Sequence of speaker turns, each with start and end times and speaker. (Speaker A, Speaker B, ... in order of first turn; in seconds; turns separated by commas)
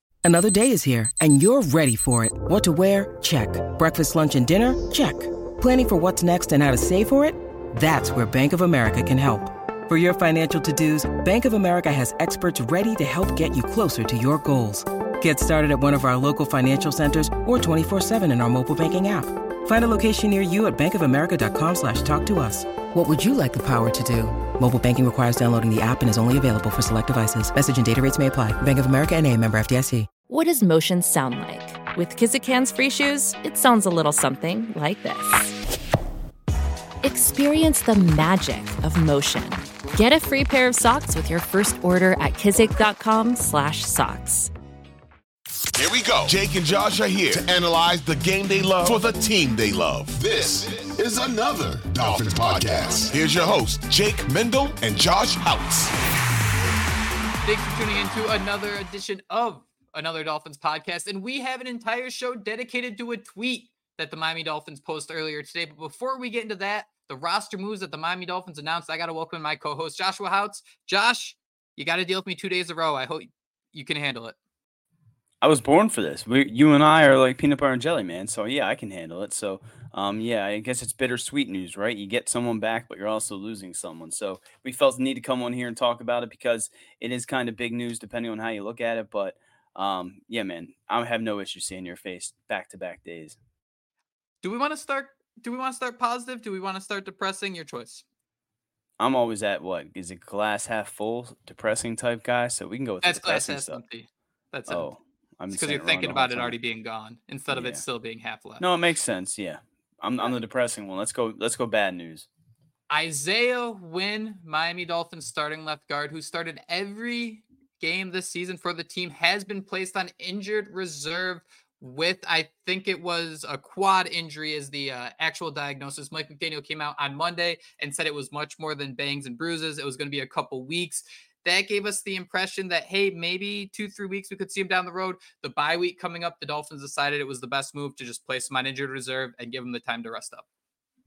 Speaker A: 0.2-30.1, Speaker B: 30.3-35.5, Speaker B: 37.0-44.5, Speaker C: 45.7-55.9, Speaker D: 57.4-74.3, Speaker E: 75.4-93.4, Speaker D: 94.4-98.0, Speaker E: 99.0-103.8, Speaker D: 103.0-104.9, Speaker E: 104.7-106.5, Speaker D: 105.5-108.6, Speaker E: 107.5-107.8, Speaker E: 108.6-112.3, Speaker D: 112.9-140.4